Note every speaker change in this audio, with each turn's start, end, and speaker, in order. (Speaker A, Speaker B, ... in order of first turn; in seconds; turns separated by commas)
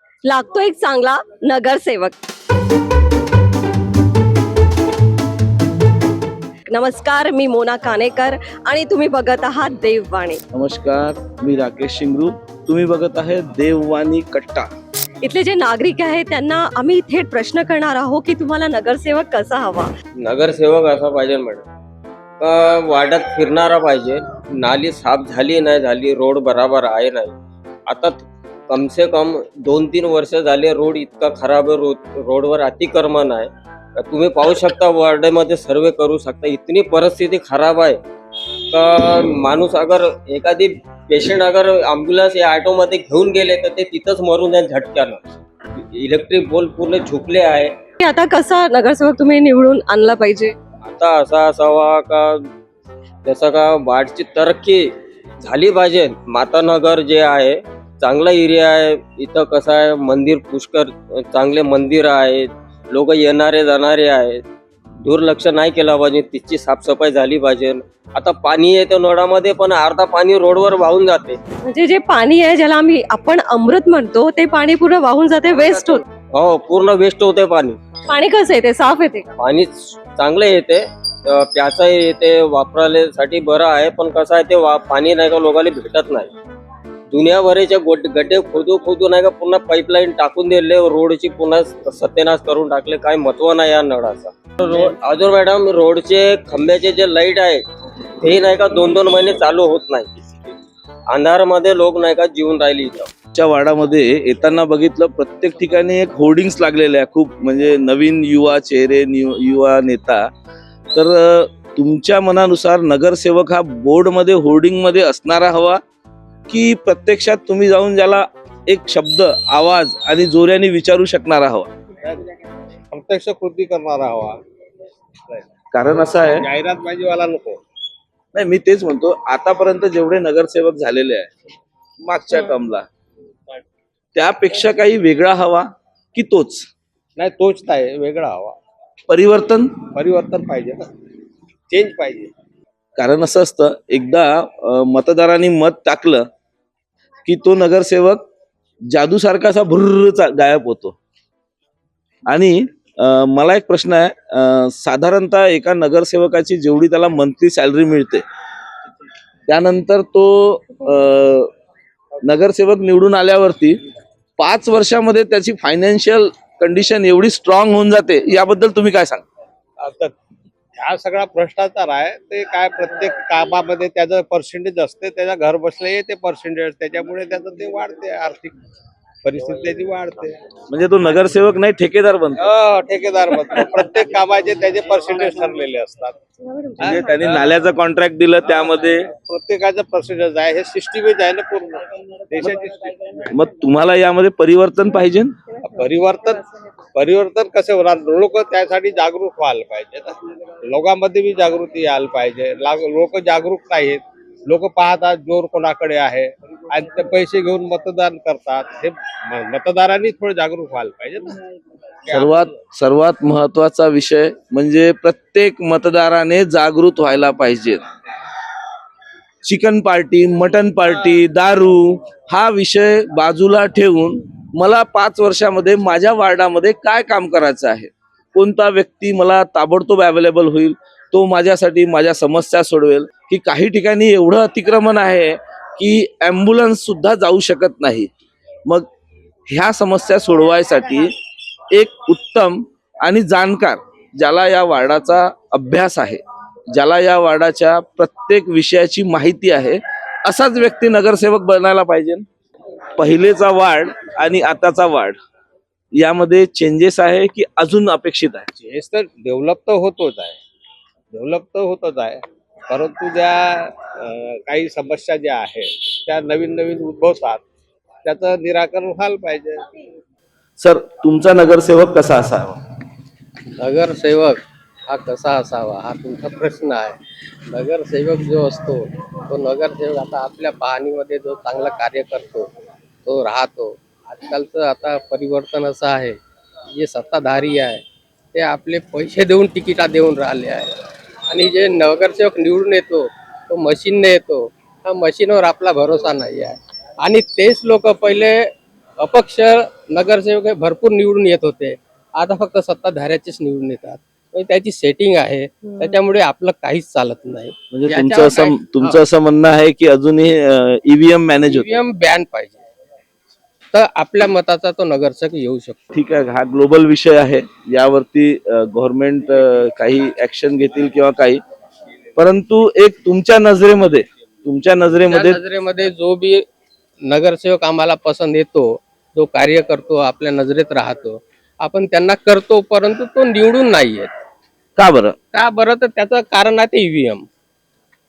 Speaker A: 0.2-2.1, Speaker A: 6.7-10.4, Speaker B: 10.5-14.7, Speaker A: 15.2-19.9, Speaker C: 20.2-21.6, Speaker C: 22.4-27.4, Speaker C: 27.9-33.5, Speaker C: 34.0-38.0, Speaker C: 38.7-45.2, Speaker C: 46.0-47.8, Speaker A: 48.0-50.5, Speaker C: 50.8-52.4, Speaker C: 53.2-54.9, Speaker C: 55.4-64.4, Speaker C: 65.0-71.4, Speaker A: 71.7-76.0, Speaker C: 75.5-77.8, Speaker A: 78.1-79.3, Speaker C: 79.4-86.3, Speaker C: 87.1-97.6, Speaker C: 98.2-100.3, Speaker C: 101.1-103.1, Speaker B: 103.3-110.3, Speaker B: 110.9-115.8, Speaker B: 116.5-121.7, Speaker D: 122.9-124.4, Speaker B: 125.7-126.4, Speaker D: 126.3-127.6, Speaker B: 128.3-131.3, Speaker B: 132.0-132.9, Speaker B: 134.2-136.7, Speaker D: 137.2-138.6, Speaker B: 139.1-139.7, Speaker D: 139.9-140.9, Speaker D: 141.7-142.3, Speaker B: 143.0-146.3, Speaker B: 147.2-148.2, Speaker B: 148.9-151.0, Speaker B: 152.3-158.2, Speaker B: 159.5-161.5, Speaker B: 162.2-163.8, Speaker B: 164.4-169.2, Speaker D: 169.8-170.1, Speaker D: 170.8-178.6, Speaker D: 179.2-180.4, Speaker C: 179.4-179.8, Speaker B: 180.7-182.5, Speaker D: 182.4-186.2, Speaker B: 186.8-189.1, Speaker D: 186.8-187.4, Speaker D: 188.6-193.3, Speaker B: 193.3-195.4, Speaker D: 195.6-211.4, Speaker D: 212.1-212.4, Speaker B: 212.1-217.8, Speaker B: 219.4-238.1, Speaker B: 239.5-241.1, Speaker B: 241.7-246.2, Speaker B: 246.7-252.2, Speaker B: 253.0-255.2, Speaker B: 256.0-258.5, Speaker D: 258.6-260.4, Speaker D: 261.1-267.4, Speaker D: 268.0-269.6, Speaker B: 270.6-272.6, Speaker E: 273.6-282.5, Speaker E: 283.1-286.2, Speaker E: 286.7-287.8, Speaker E: 288.3-290.8, Speaker E: 291.3-309.0, Speaker B: 307.7-311.8, Speaker E: 311.4-312.6, Speaker E: 313.7-315.8, Speaker B: 315.9-321.4, Speaker B: 322.2-325.4, Speaker E: 325.1-326.4, Speaker E: 327.1-334.1, Speaker B: 334.8-335.2, Speaker E: 335.3-337.3